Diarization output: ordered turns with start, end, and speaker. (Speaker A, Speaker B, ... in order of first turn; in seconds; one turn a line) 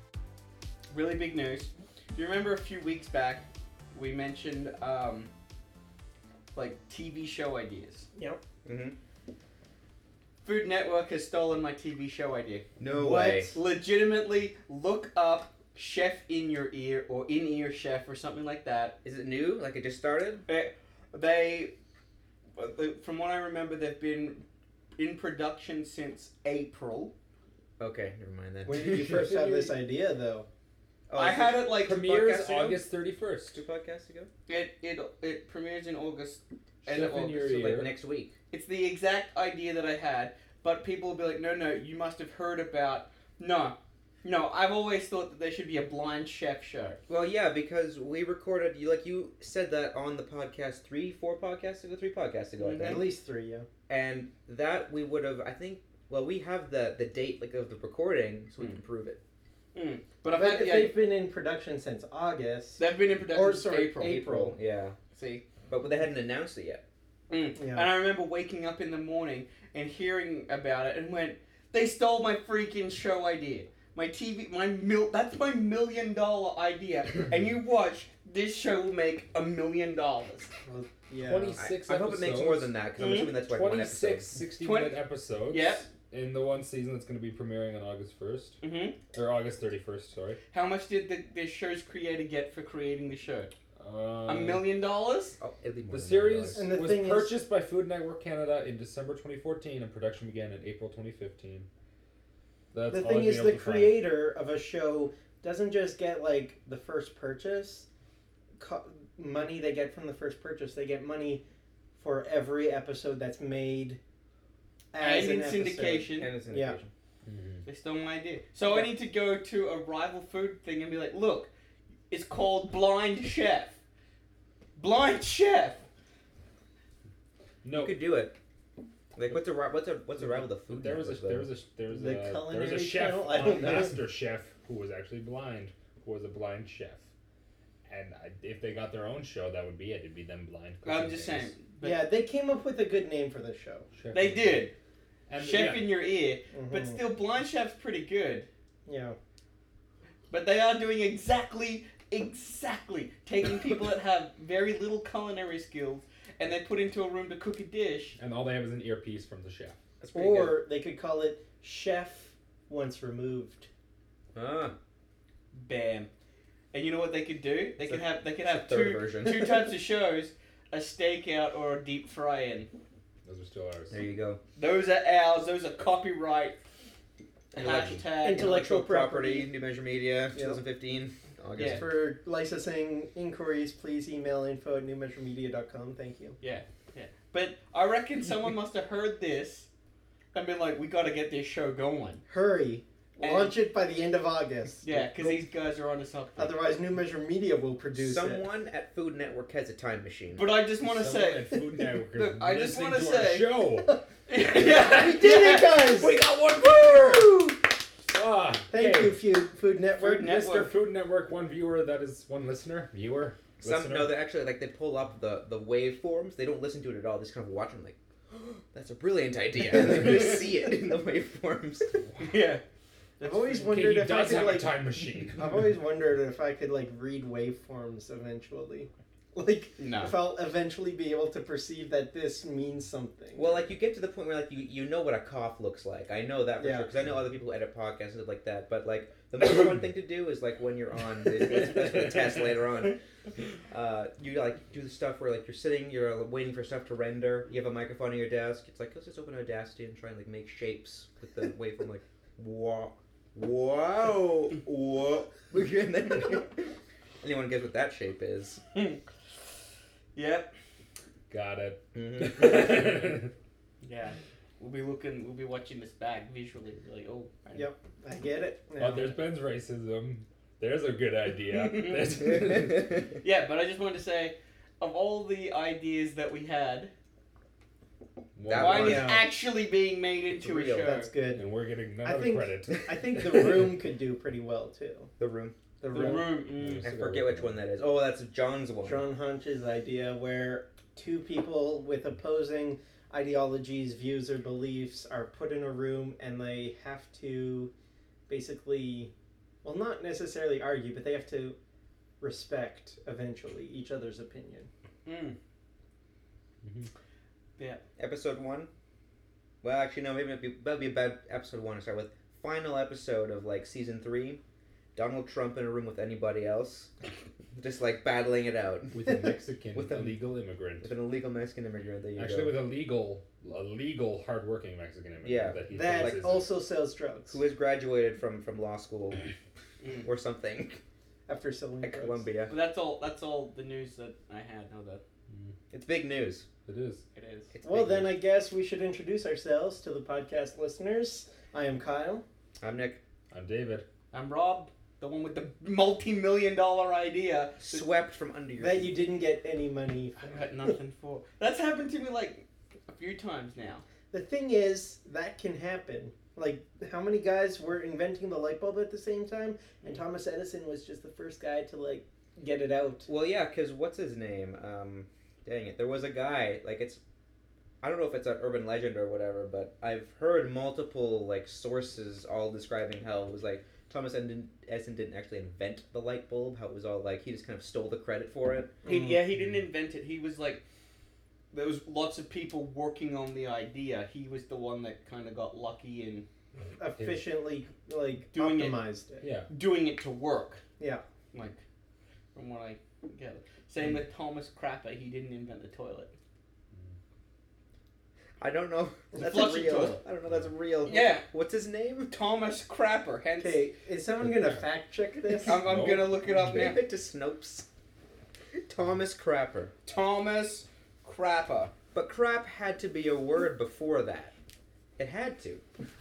Speaker A: 0.9-5.3
Speaker A: 6.5-8.1
Speaker B: 8.1-8.4
Speaker C: 8.6-8.9
Speaker A: 10.4-18.9
Speaker C: 12.8-13.5
Speaker C: 19.0-20.4
Speaker A: 20.5-21.7
Speaker A: 22.6-24.4
Speaker A: 24.9-27.1
Speaker C: 27.8-29.4
Speaker B: 28.6-30.5
Speaker D: 29.0-29.6
Speaker C: 31.1-32.9
Speaker A: 31.1-32.0
Speaker D: 31.8-33.6
Speaker C: 33.5-34.3
Speaker A: 34.5-37.6
Speaker D: 36.8-37.9
Speaker C: 37.4-38.3
Speaker A: 38.5-47.0
Speaker C: 47.1-53.1
Speaker A: 52.6-53.0
Speaker B: 52.8-53.7
Speaker C: 53.9-59.2
Speaker A: 59.7-61.0
Speaker B: 60.3-64.6
Speaker A: 62.8-64.2
Speaker C: 64.0-65.0
Speaker A: 65.1-65.4
Speaker C: 65.7-66.8
Speaker A: 67.3-80.5
Speaker B: 67.5-67.9
Speaker B: 80.6-81.6
Speaker D: 81.2-90.4
Speaker C: 81.5-84.4
Speaker A: 83.0-83.3
Speaker A: 84.6-85.9
Speaker A: 88.6-89.0
Speaker A: 90.5-93.5
Speaker D: 93.8-94.7
Speaker A: 94.2-95.4
Speaker C: 95.4-96.8
Speaker D: 95.9-101.7
Speaker B: 96.5-97.4
Speaker D: 102.7-104.0
Speaker B: 102.9-107.8
Speaker B: 108.6-111.4
Speaker B: 112.0-114.0
Speaker B: 114.9-116.8
Speaker A: 115.0-116.3
Speaker C: 116.2-116.9
Speaker D: 117.2-117.7
Speaker A: 117.6-121.5
Speaker A: 122.1-123.8
Speaker A: 124.8-125.8
Speaker D: 127.6-128.0
Speaker C: 127.7-128.3
Speaker C: 129.1-131.5
Speaker D: 130.7-137.1
Speaker B: 131.9-134.0
Speaker D: 137.9-141.5
Speaker A: 140.8-142.0
Speaker B: 141.8-143.9
Speaker D: 143.9-144.7
Speaker A: 144.1-144.7
Speaker D: 145.3-145.9
Speaker A: 145.4-148.5
Speaker B: 146.5-147.0
Speaker B: 148.8-149.2
Speaker A: 150.3-158.2
Speaker D: 158.2-159.8
Speaker C: 160.0-160.6
Speaker B: 160.1-163.7
Speaker C: 164.3-164.7
Speaker A: 165.5-166.1
Speaker A: 166.7-172.7
Speaker C: 167.8-169.6
Speaker D: 173.2-174.0
Speaker C: 173.9-174.4
Speaker A: 174.6-176.6
Speaker C: 177.5-182.0
Speaker A: 177.6-178.5
Speaker B: 177.7-179.5
Speaker B: 180.3-180.6
Speaker A: 181.6-181.8
Speaker B: 181.6-186.4
Speaker A: 186.4-189.7
Speaker A: 190.3-192.2
Speaker B: 192.3-195.4
Speaker A: 193.2-193.6
Speaker A: 194.8-196.6
Speaker B: 196.4-198.4
Speaker C: 197.9-200.4
Speaker A: 200.3-201.5
Speaker D: 200.8-204.0
Speaker A: 202.1-203.5
Speaker B: 203.8-206.1
Speaker A: 204.3-206.1
Speaker D: 205.5-209.2
Speaker B: 208.7-210.5
Speaker A: 210.0-210.7
Speaker D: 210.3-214.1
Speaker C: 213.6-222.0
Speaker A: 222.2-222.6
Speaker A: 223.2-223.7
Speaker B: 223.2-233.6
Speaker D: 223.6-225.6
Speaker A: 229.8-230.2
Speaker C: 233.3-243.0
Speaker B: 236.6-236.9
Speaker C: 243.7-258.6
Speaker A: 258.7-259.0
Speaker A: 260.1-260.5
Speaker D: 261.3-263.3
Speaker C: 261.9-262.9
Speaker A: 263.8-267.7
Speaker B: 267.5-269.1
Speaker D: 268.8-272.9
Speaker A: 271.5-272.3
Speaker A: 273.2-276.9
Speaker D: 278.4-279.1
Speaker C: 278.4-279.2
Speaker A: 278.5-281.1
Speaker B: 278.8-279.2
Speaker C: 280.4-280.9
Speaker B: 280.8-281.5
Speaker D: 281.3-282.9
Speaker B: 282.0-285.1
Speaker C: 285.2-285.6
Speaker B: 285.8-286.4
Speaker A: 285.9-286.9
Speaker D: 286.5-287.6
Speaker C: 286.8-289.1
Speaker B: 288.8-297.7
Speaker B: 298.3-299.1
Speaker B: 299.6-301.6
Speaker B: 302.2-304.7
Speaker A: 305.0-305.4
Speaker A: 307.6-307.8
Speaker C: 308.0-308.7
Speaker C: 309.6-314.4
Speaker C: 314.9-316.9
Speaker C: 317.6-319.2
Speaker D: 318.9-320.9
Speaker C: 319.7-320.2
Speaker C: 320.8-322.6
Speaker D: 322.1-326.5
Speaker C: 325.2-326.4
Speaker B: 325.7-327.4
Speaker C: 327.3-329.2
Speaker C: 330.0-330.8
Speaker B: 331.3-332.3
Speaker C: 331.8-332.5
Speaker A: 332.5-335.0
Speaker C: 335.7-336.5
Speaker D: 336.6-337.0
Speaker A: 337.1-337.5
Speaker C: 337.5-338.1
Speaker B: 337.6-342.2
Speaker C: 342.6-343.0
Speaker D: 343.3-343.9
Speaker A: 344.1-347.9
Speaker C: 347.6-349.0
Speaker B: 348.6-350.4
Speaker A: 350.1-353.8
Speaker B: 354.1-363.1
Speaker C: 363.1-367.0
Speaker C: 367.8-378.8
Speaker B: 378.8-379.2
Speaker A: 378.8-380.6
Speaker D: 379.3-379.6
Speaker A: 381.5-386.2
Speaker B: 386.8-389.3
Speaker D: 386.9-387.2
Speaker A: 388.3-388.8
Speaker D: 389.2-389.5
Speaker A: 389.5-390.6
Speaker B: 390.8-391.0
Speaker A: 391.3-391.6
Speaker A: 392.3-396.1
Speaker C: 398.4-402.1
Speaker A: 399.1-400.0
Speaker A: 400.8-401.2
Speaker A: 402.1-403.7
Speaker B: 403.4-405.6
Speaker D: 404.2-404.7
Speaker D: 405.3-406.5
Speaker A: 405.4-406.8
Speaker C: 406.4-407.7
Speaker C: 408.5-409.7
Speaker A: 409.8-411.7
Speaker C: 411.9-414.3
Speaker C: 415.0-415.6